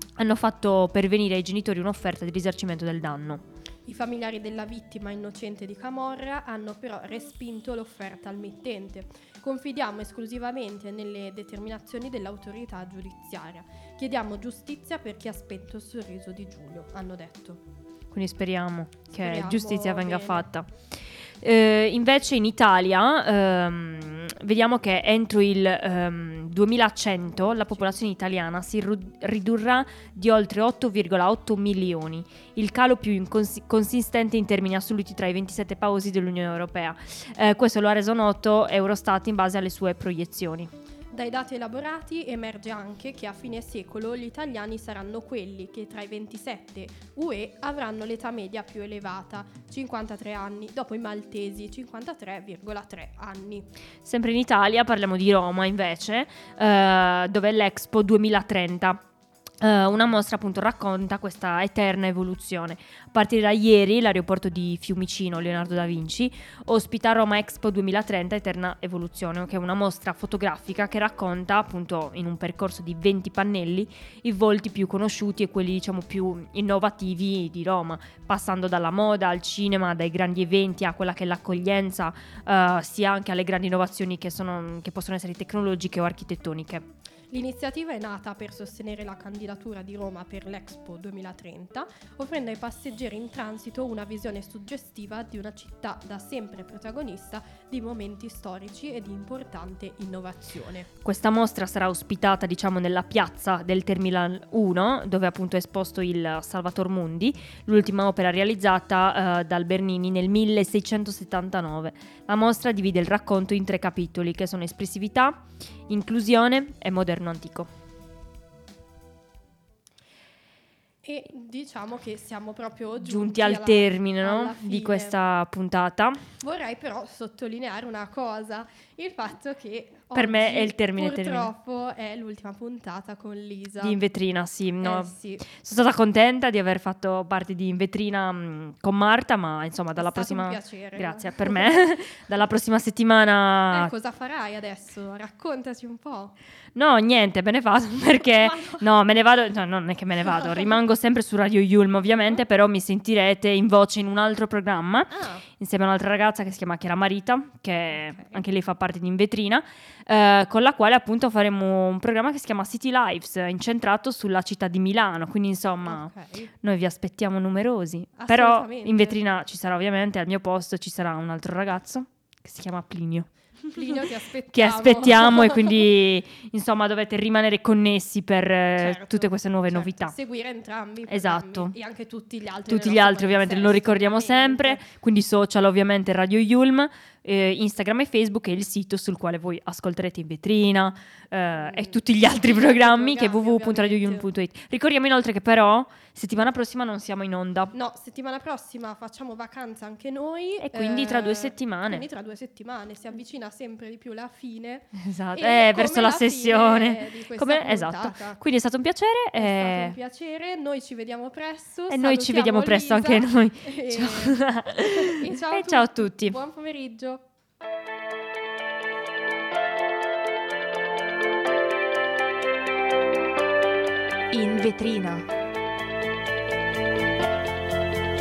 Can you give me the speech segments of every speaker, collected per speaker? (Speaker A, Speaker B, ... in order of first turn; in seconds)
Speaker A: 0.2-3.4, 18.1-20.7, 21.4-40.7, 54.0-59.0, 59.6-86.8, 101.0-117.7, 123.0-126.2, 130.2-131.5, 133.8-143.9, 146.8-173.8, 174.5-180.2, 181.1-181.7, 182.7-197.7, 200.6-202.1, 205.0-209.9, 211.9-216.4
Speaker B: 3.9-17.6, 19.1-20.5, 27.4-27.9, 41.1-53.7, 87.3-100.9, 121.0-125.2, 126.4-134.0, 134.8-135.5, 140.0-141.8, 143.7-146.3, 148.4-148.8, 150.2-150.8, 155.1-155.5, 157.9-158.4, 165.8-166.5, 168.2-169.2, 173.7-175.8, 178.8-184.8, 191.6-194.3, 197.7-208.4, 209.4-217.2, 224.3-225.2